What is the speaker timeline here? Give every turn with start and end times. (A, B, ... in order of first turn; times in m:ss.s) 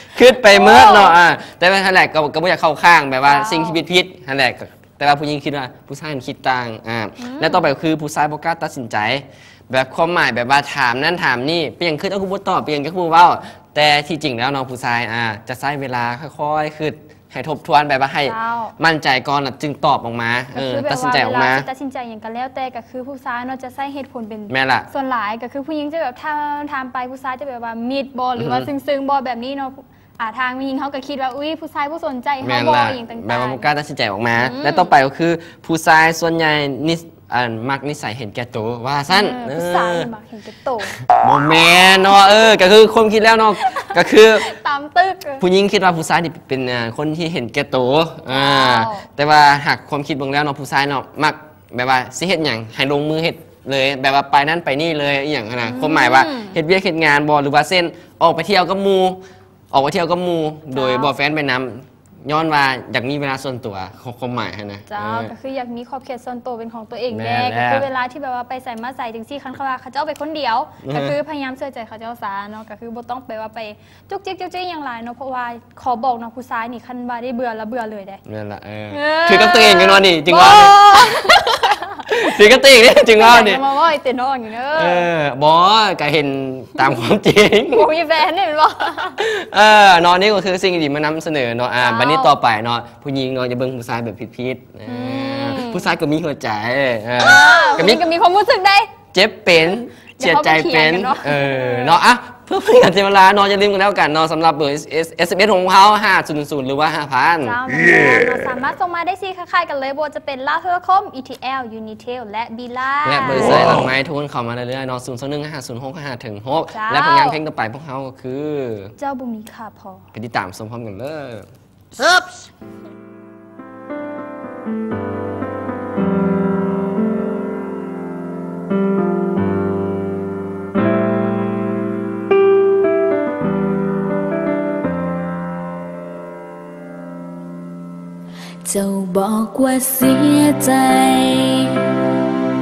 0:00.1-0:21.6 A
0:00.5-0:01.2 B
0:03.2-0:03.8 B
0:07.2-0:07.7 B
0:18.2-0:18.7 B
0:20.5-0:33.7 B
0:24.5-0:24.9 A
0:28.4-0:28.7 A
0:32.4-0:40.1 A
0:34.4-0:34.9 B
0:39.1-0:40.9 B
0:41.2-0:44.4 A
0:44.4-0:45.4 B
0:45.4-1:05.3 A
0:48.3-0:49.0 B
0:55.6-0:56.6 B
1:00.7-1:01.1 B
1:04.9-1:18.2 B
1:07.1-1:07.8 A
1:10.8-1:11.2 A
1:18.2-1:21.3 A
1:18.9-1:22.0 B
1:22.1-1:23.6 A
1:23.2-1:25.1 B
1:24.8-1:27.8 A
1:27.7-1:29.2 B
1:29.3-1:38.0 A
1:31.8-1:32.3 B
1:34.8-1:35.8 B
1:37.2-1:38.9 B
1:39.1-1:47.6 A
1:40.2-1:42.0 B
1:47.4-1:53.8 B
1:53.0-1:58.9 A
1:56.7-1:57.4 B
1:59.0-2:00.0 B
2:00.1-2:01.5 A
2:18.6-2:21.8 C